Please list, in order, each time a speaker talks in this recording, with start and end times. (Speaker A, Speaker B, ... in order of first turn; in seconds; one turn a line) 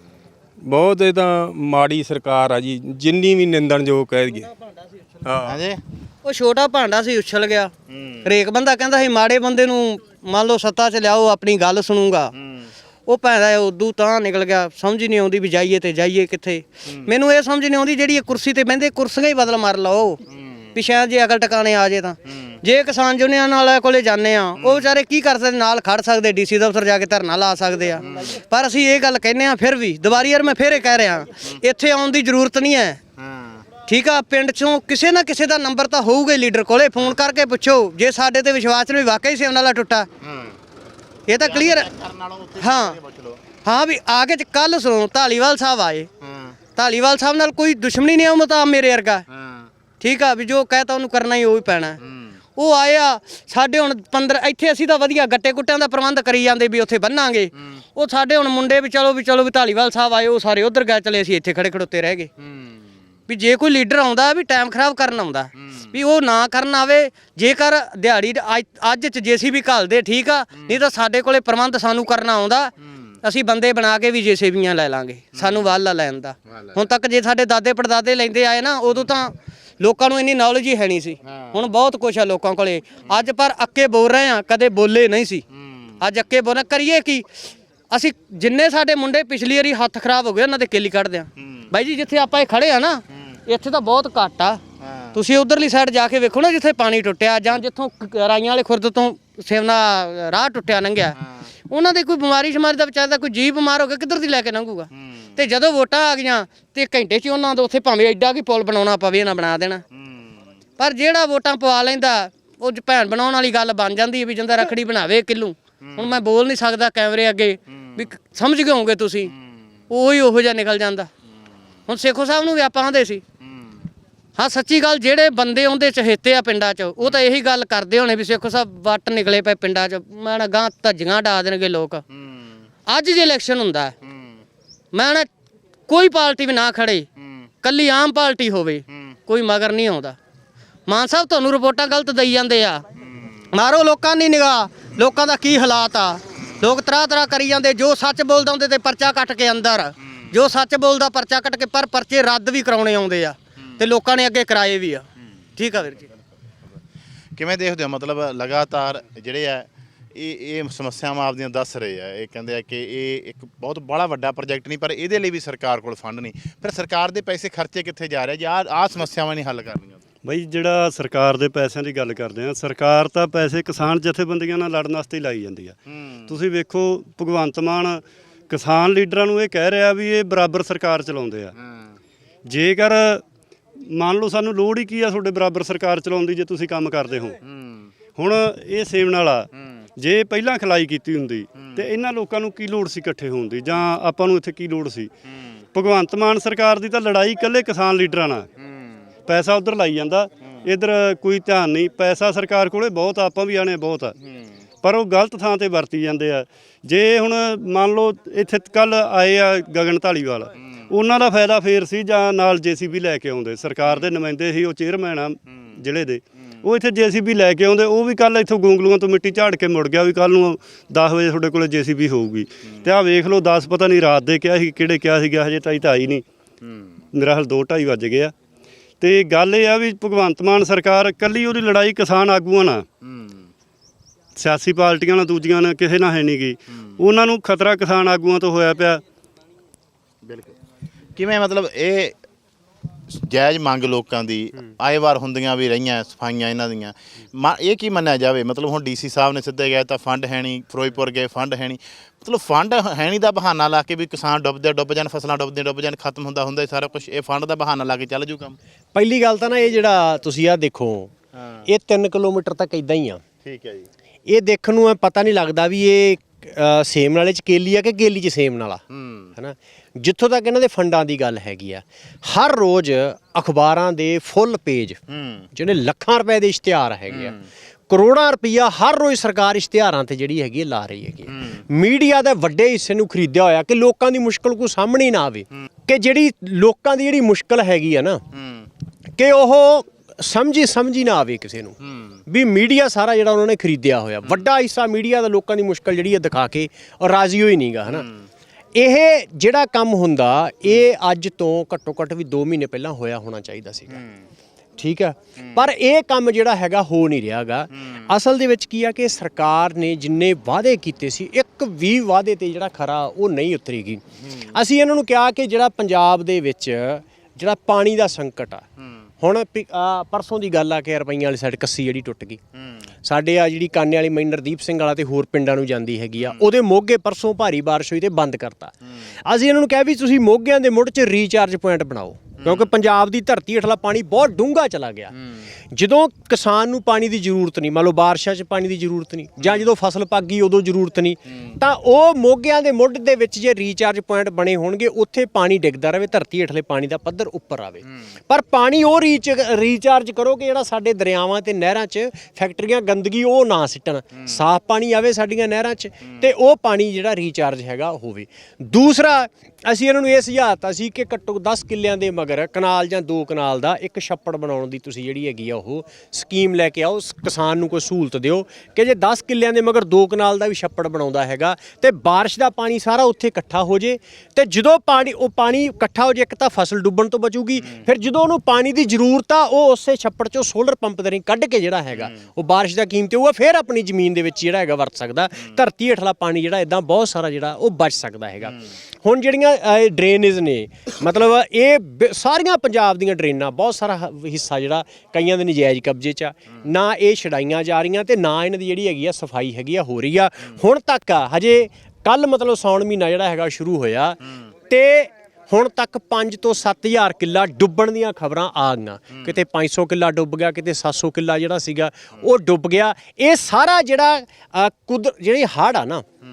Speaker A: 0.7-4.5
Speaker A: 5.2-5.6
Speaker B: 5.5-5.8
Speaker C: 6.2-7.7
Speaker B: 7.9-8.2
Speaker C: 8.2-12.3
Speaker B: 12.4-12.7
Speaker C: 13.1-20.2
Speaker B: 20.3-20.6
Speaker C: 20.7-33.0
Speaker B: 33.2-33.6
Speaker C: 33.9-40.1
Speaker B: 40.2-40.6
Speaker C: 41.3-41.9
Speaker B: 41.4-43.4
Speaker C: 42.6-43.0
Speaker C: 43.6-46.1
Speaker B: 46.2-46.6
Speaker C: 46.8-49.2
Speaker B: 49.3-49.7
Speaker C: 50.0-52.0
Speaker B: 52.0-52.4
Speaker C: 52.5-62.3
Speaker B: 62.4-62.8
Speaker C: 63.3-72.7
Speaker B: 65.6-65.9
Speaker C: 73.2-85.4
Speaker B: 75.4-75.7
Speaker B: 76.5-76.8
Speaker B: 81.2-81.6
Speaker B: 85.6-85.9
Speaker C: 86.0-87.3
Speaker C: 87.9-94.6
Speaker B: 91.4-91.7
Speaker B: 94.8-95.2
Speaker C: 95.1-101.2
Speaker C: 101.7-109.8
Speaker B: 110.0-110.3
Speaker C: 110.8-119.3
Speaker B: 115.8-116.1
Speaker C: 119.9-121.1
Speaker C: 121.9-123.2
Speaker C: 124.4-132.0
Speaker B: 132.1-132.5
Speaker C: 132.9-133.9
Speaker B: 134.1-134.3
Speaker C: 134.9-135.3
Speaker C: 135.9-137.1
Speaker C: 137.6-140.2
Speaker C: 140.9-142.8
Speaker C: 143.5-155.0
Speaker C: 155.6-156.1
Speaker B: 157.4-170.0
Speaker D: 170.2-175.8
Speaker B: 175.9-176.3
Speaker D: 176.3-181.5
Speaker B: 181.6-181.9
Speaker D: 182.4-183.2
Speaker D: 183.9-187.4
Speaker B: 187.4-187.9
Speaker D: 188.2-195.1
Speaker B: 191.5-191.8
Speaker D: 195.7-198.5
Speaker D: 199.3-204.1
Speaker D: 204.8-226.2
Speaker B: 226.6-226.9
Speaker D: 227.1-228.3
Speaker D: 229.0-232.8
Speaker B: 233.0-233.5
Speaker D: 234.3-239.0
Speaker B: 240.2-240.5
Speaker B: 241.2-242.1
Speaker B: 243.1-258.6
Speaker E: 258.9-261.1
Speaker B: 261.4-261.6
Speaker E: 261.6-263.2
Speaker B: 263.4-263.9
Speaker E: 264.3-268.8
Speaker B: 268.9-269.3
Speaker E: 269.4-275.0
Speaker B: 275.1-275.4
Speaker E: 275.5-277.4
Speaker E: 277.9-288.2
Speaker B: 281.4-281.6
Speaker B: 288.4-288.6
Speaker E: 289.2-291.8
Speaker E: 292.3-298.1
Speaker B: 297.9-298.2
Speaker E: 298.7-304.0
Speaker E: 304.8-314.0
Speaker E: 314.5-318.6
Speaker E: 319.2-322.4
Speaker E: 323.0-335.1
Speaker B: 332.4-332.7
Speaker E: 335.7-404.2
Speaker E: 404.7-416.1